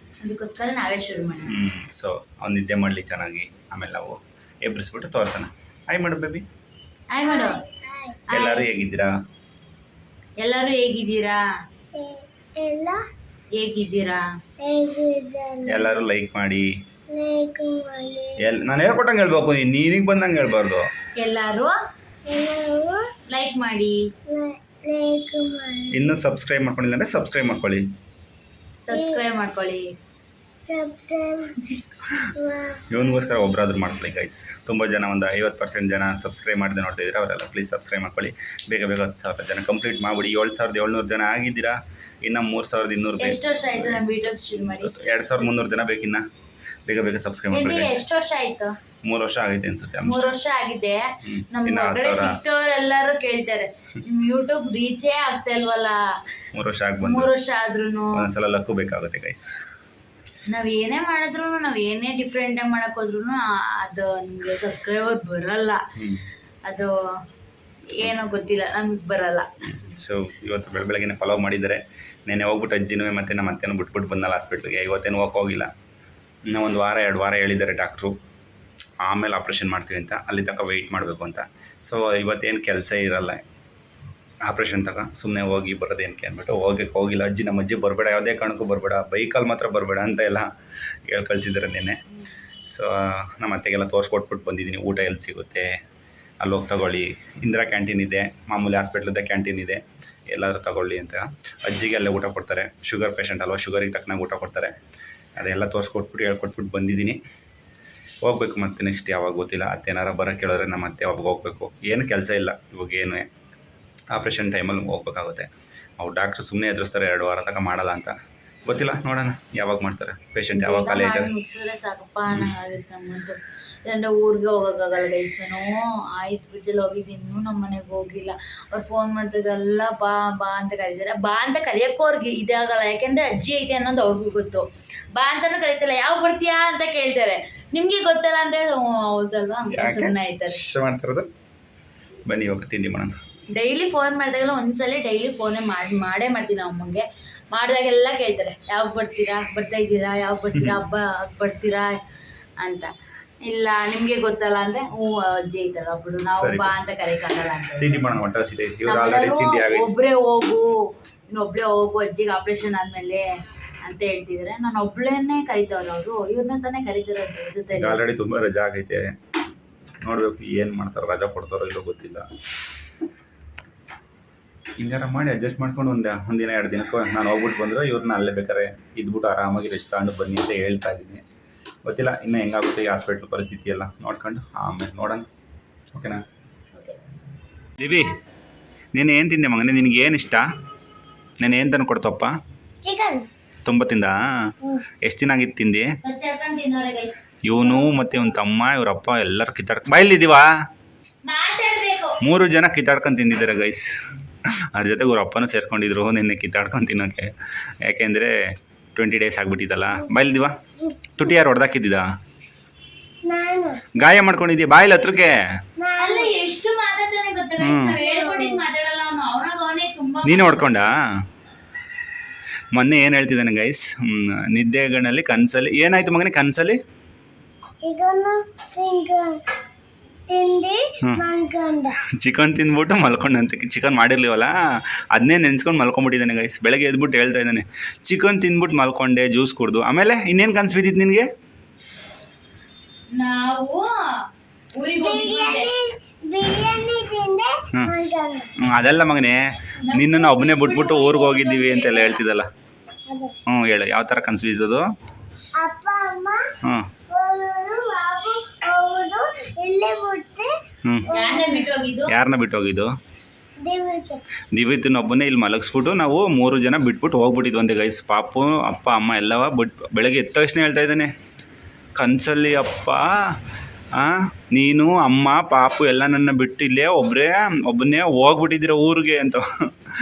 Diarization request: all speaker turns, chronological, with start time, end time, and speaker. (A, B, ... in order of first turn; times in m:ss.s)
0:00.2-0:01.6 A
0:01.5-0:06.4 B
0:07.1-0:07.6 A
0:07.2-0:08.2 C
0:08.3-0:08.7 A
0:08.3-0:09.1 B
0:10.4-0:11.4 A
0:11.9-0:13.0 C
0:13.6-0:14.2 A
0:14.6-0:16.0 C
0:15.6-0:16.7 B
0:17.1-0:18.4 C
0:18.4-0:20.8 B
0:21.2-0:21.7 A
0:22.2-0:23.1 C
0:23.3-0:24.0 A
0:24.3-0:26.2 C
0:25.9-0:27.8 B
0:28.8-0:29.9 A
0:28.9-0:29.2 C
0:30.6-0:31.8 C
0:32.3-0:32.8 C
0:32.9-0:46.2 B
0:43.2-0:44.9 A
0:46.8-0:48.0 B
0:47.5-0:48.8 A
0:49.0-0:50.3 B
0:50.0-0:56.0 A
0:51.2-0:52.4 B
0:56.5-0:57.3 B
0:57.0-0:58.2 A
0:58.1-0:59.5 B
1:00.5-1:05.8 A
1:06.0-1:06.3 B
1:06.6-1:06.9 A
1:08.0-1:09.5 A
1:09.6-1:15.7 B
1:16.5-1:18.2 B
1:19.0-1:23.4 B
1:24.4-1:30.5 B
1:31.1-1:32.0 B
1:32.7-1:35.7 B
1:36.4-1:44.7 B
1:45.4-1:47.2 B
1:48.2-1:53.2 B
1:54.1-1:58.1 B
1:58.6-2:01.3 B
2:00.5-2:20.6 A
2:02.3-2:02.5 B
2:19.7-2:21.3 B
2:22.3-2:23.1 B
2:23.5-2:31.9 A
2:30.5-2:30.8 B
2:32.6-2:32.9 A
2:33.4-2:38.1 A
2:36.3-2:36.7 B
2:37.8-2:39.9 B
2:38.8-2:43.3 A
2:43.8-2:48.0 A
2:47.7-2:49.1 B
2:50.0-2:52.2 B
2:54.8-3:01.2 B
3:01.8-3:05.3 B
3:05.9-3:06.2 B
3:07.8-3:08.2 B
3:08.9-3:10.4 B
3:11.4-3:12.4 B
3:12.8-3:13.3 C
3:13.6-3:14.5 B
3:15.0-3:15.9 B
3:16.0-3:17.8 A
3:17.4-3:20.5 B
3:21.2-3:22.2 A
3:22.2-3:23.9 B
3:24.7-3:27.3 B
3:27.8-3:28.3 B
3:29.0-3:30.5 B
3:30.8-3:31.3 C
3:31.2-3:32.0 B
3:33.2-3:33.8 C
3:34.0-3:35.3 B
3:35.8-3:36.4 C
3:36.0-3:40.7 A
3:37.6-3:38.0 B
3:38.0-3:38.6 C
3:40.2-3:40.9 B
3:42.7-3:46.8 B
3:47.8-3:49.4 C
3:50.3-3:52.0 C
3:52.2-3:54.5 B
3:55.1-4:01.3 B
4:03.1-4:05.7 A
4:05.0-4:08.5 C
4:08.6-4:12.5 B
4:09.8-4:12.2 A
4:13.1-4:13.3 C
4:13.5-4:14.9 B
4:15.6-4:16.5 C
4:17.1-4:20.5 C
4:20.8-4:21.1 B
4:21.1-4:21.7 C
4:21.1-4:22.1 A
4:22.1-4:22.9 B
4:23.6-4:24.2 C
4:24.5-4:31.1 B
4:32.0-4:33.1 B
4:33.9-4:39.4 B